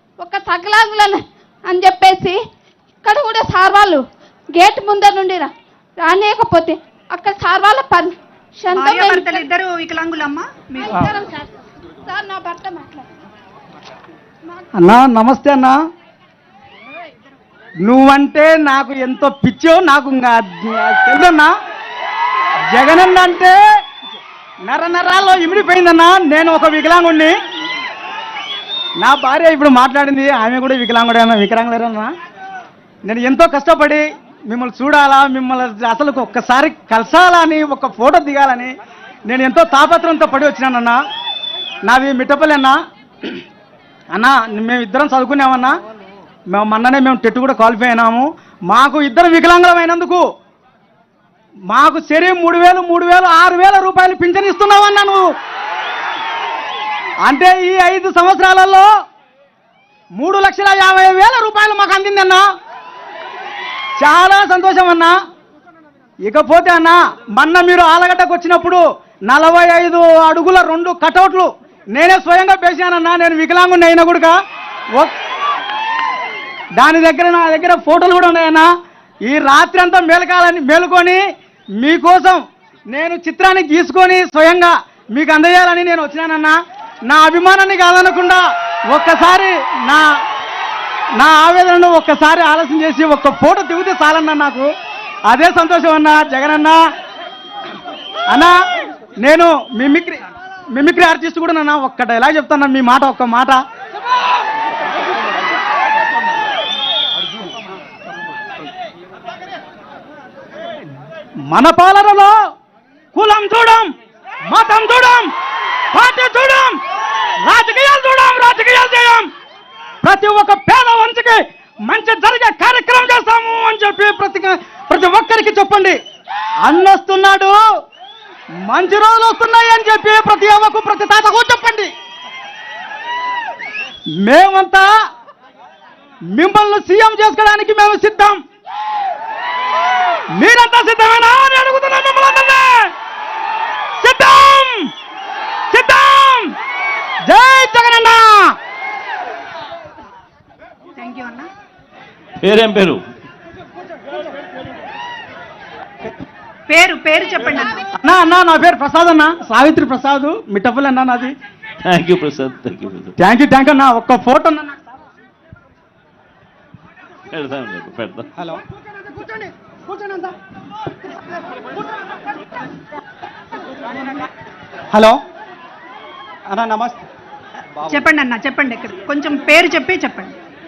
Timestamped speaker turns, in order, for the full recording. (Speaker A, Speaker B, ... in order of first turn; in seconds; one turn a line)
Speaker A: 0.2-2.4
Speaker A: 3.0-4.0
Speaker A: 4.5-9.5
Speaker B: 8.7-11.1
Speaker A: 10.8-11.4
Speaker A: 12.1-13.1
Speaker C: 14.8-15.8
Speaker C: 17.8-21.5
Speaker C: 22.6-23.6
Speaker C: 24.7-27.4
Speaker C: 29.0-32.1
Speaker C: 33.0-38.7
Speaker C: 39.3-41.0
Speaker C: 41.9-43.4
Speaker C: 44.1-45.7
Speaker C: 46.5-50.2
Speaker C: 51.7-55.2
Speaker C: 57.2-58.9
Speaker C: 60.2-62.4
Speaker C: 64.0-65.2
Speaker C: 66.3-74.4
Speaker C: 76.8-78.7
Speaker C: 79.2-81.2
Speaker C: 81.8-90.1
Speaker C: 91.2-94.7
Speaker C: 95.3-96.8
Speaker C: 98.3-98.5
Speaker C: 99.2-103.6
Speaker C: 111.5-112.3
Speaker C: 113.1-113.9
Speaker C: 114.5-115.3
Speaker C: 115.9-116.7
Speaker C: 117.4-119.3
Speaker C: 120.0-126.0
Speaker C: 126.6-127.6
Speaker C: 128.7-131.9
Speaker C: 134.2-134.8
Speaker C: 136.3-138.4
Speaker C: 140.3-142.9
Speaker C: 144.0-144.9
Speaker C: 145.7-146.5
Speaker C: 147.2-148.5
Speaker B: 151.0-151.5
Speaker D: 152.4-153.0
Speaker B: 156.7-157.8
Speaker C: 157.9-161.3
Speaker D: 161.8-163.1
Speaker C: 163.2-164.8
Speaker D: 167.3-168.2
Speaker C: 174.9-175.2
Speaker C: 176.5-177.0
Speaker B: 177.8-180.3